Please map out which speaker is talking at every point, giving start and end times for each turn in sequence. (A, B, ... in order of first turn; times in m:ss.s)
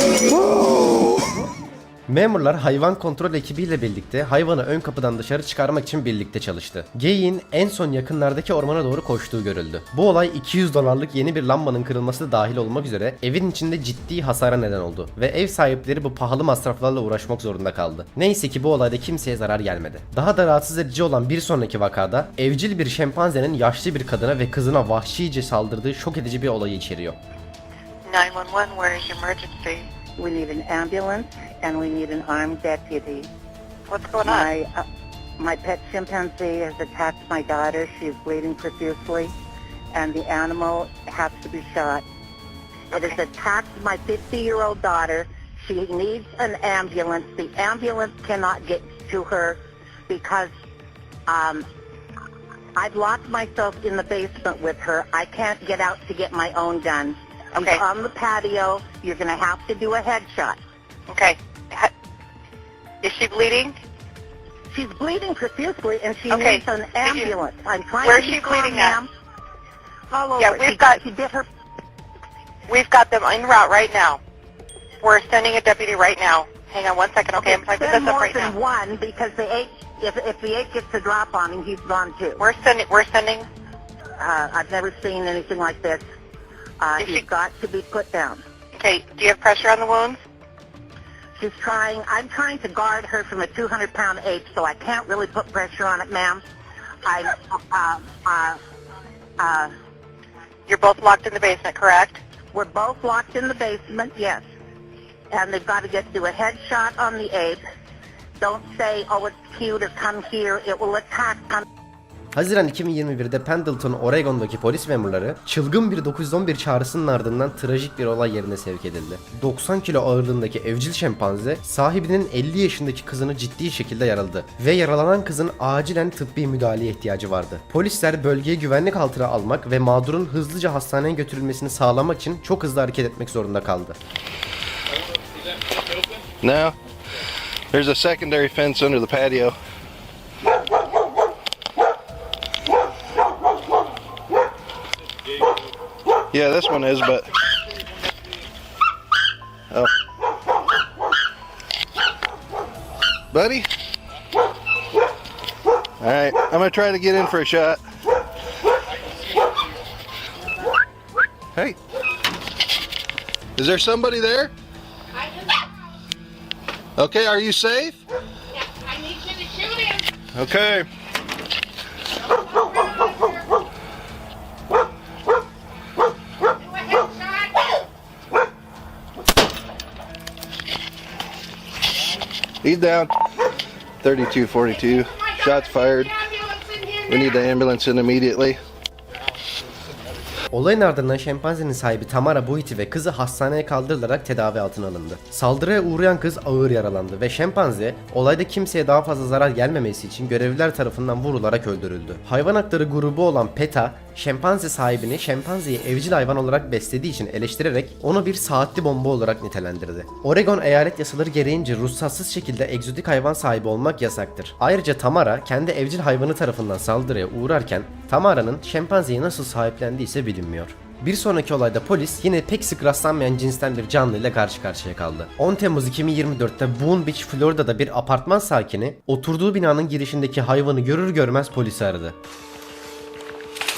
0:02.1-0:27.2 A
0:28.1-0:29.9 B
0:30.2-0:33.3 C
0:33.9-0:34.5 B
0:34.2-0:34.9 C
0:35.4-0:39.3 C
0:39.9-0:42.0 C
0:42.9-0:50.5 C
0:51.3-0:51.7 C
0:52.8-1:00.6 C
0:57.6-0:57.8 B
1:01.1-1:01.9 B
1:03.0-1:03.8 B
1:04.7-1:09.1 C
1:06.3-1:07.3 B
1:08.0-1:09.0 B
1:10.1-1:11.5 C
1:10.4-1:11.0 B
1:12.7-1:14.2 B
1:15.0-1:18.6 B
1:17.4-1:22.5 C
1:22.4-1:23.5 B
1:24.2-1:26.0 C
1:26.8-1:28.4 C
1:27.0-1:27.2 B
1:28.7-1:30.2 B
1:31.4-1:36.4 C
1:37.0-1:38.6 C
1:39.4-1:39.7 C
1:40.7-1:42.2 B
1:42.5-1:44.4 C
1:45.3-1:47.6 C
1:48.4-1:51.6 C
1:52.3-2:14.0 A
2:16.4-2:16.8 D
2:17.7-2:19.6 D
2:26.3-2:27.3 D
2:33.3-2:33.7 D
2:36.0-2:37.8 D
2:43.6-2:44.5 D
2:47.0-2:48.0 D
2:50.3-2:50.9 D
3:02.6-3:03.1 D
3:04.0-3:06.2 D
3:07.0-3:08.6 D
3:10.5-3:52.2 A